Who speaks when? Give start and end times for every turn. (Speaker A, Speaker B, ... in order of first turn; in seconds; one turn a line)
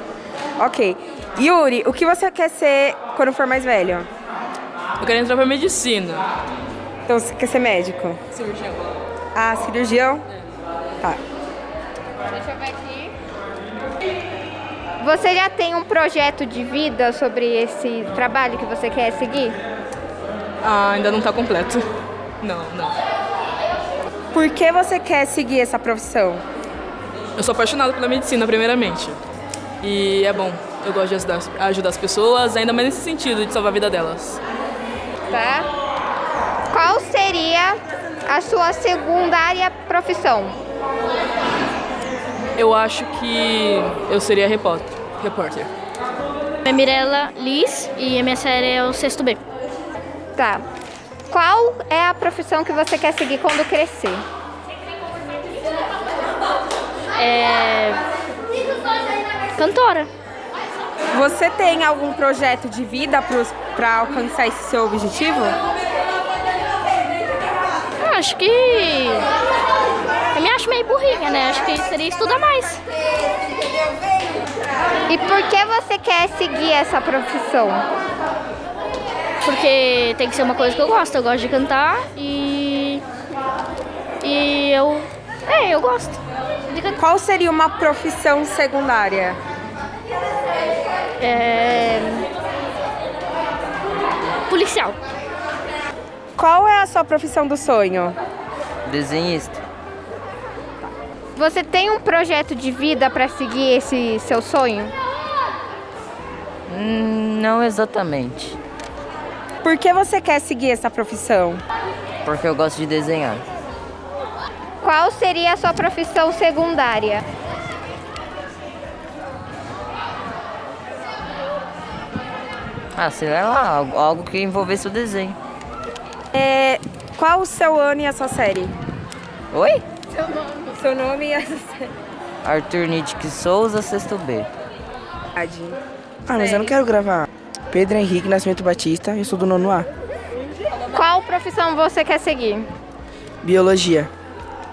Speaker A: 0.6-4.1
Speaker B: 5.0-6.2
Speaker A: 7.1-8.2
Speaker A: 9.3-10.2
Speaker C: 15.0-19.6
Speaker B: 20.6-21.8
Speaker B: 22.4-22.9
Speaker A: 24.3-26.4
Speaker B: 27.4-29.2
Speaker B: 29.8-34.4
Speaker C: 35.3-35.7
Speaker C: 36.7-40.5
Speaker B: 42.6-45.7
Speaker D: 46.7-49.4
Speaker C: 50.4-50.6
Speaker C: 51.3-54.2
Speaker D: 57.2-58.0
Speaker D: 59.5-60.1
Speaker A: 61.1-65.6
Speaker D: 68.0-69.3
Speaker D: 70.3-72.8
Speaker C: 75.1-77.8
Speaker D: 79.4-83.0
Speaker D: 84.2-87.0
Speaker A: 87.0-89.4
Speaker D: 91.2-92.2
Speaker D: 94.5-95.0
Speaker A: 96.4-98.2
Speaker E: 98.8-99.6
Speaker C: 101.3-104.9
Speaker E: 106.7-108.6
Speaker A: 109.6-111.6
Speaker E: 112.2-113.5
Speaker C: 114.8-117.2
Speaker E: 122.9-125.4
Speaker A: 126.3-128.7
Speaker E: 129.5-129.8
Speaker A: 130.7-131.9
Speaker E: 132.4-134.5
Speaker A: 135.3-135.8
Speaker A: 136.3-136.7
Speaker F: 136.3-139.9
Speaker C: 140.9-142.7
Speaker F: 143.4-144.1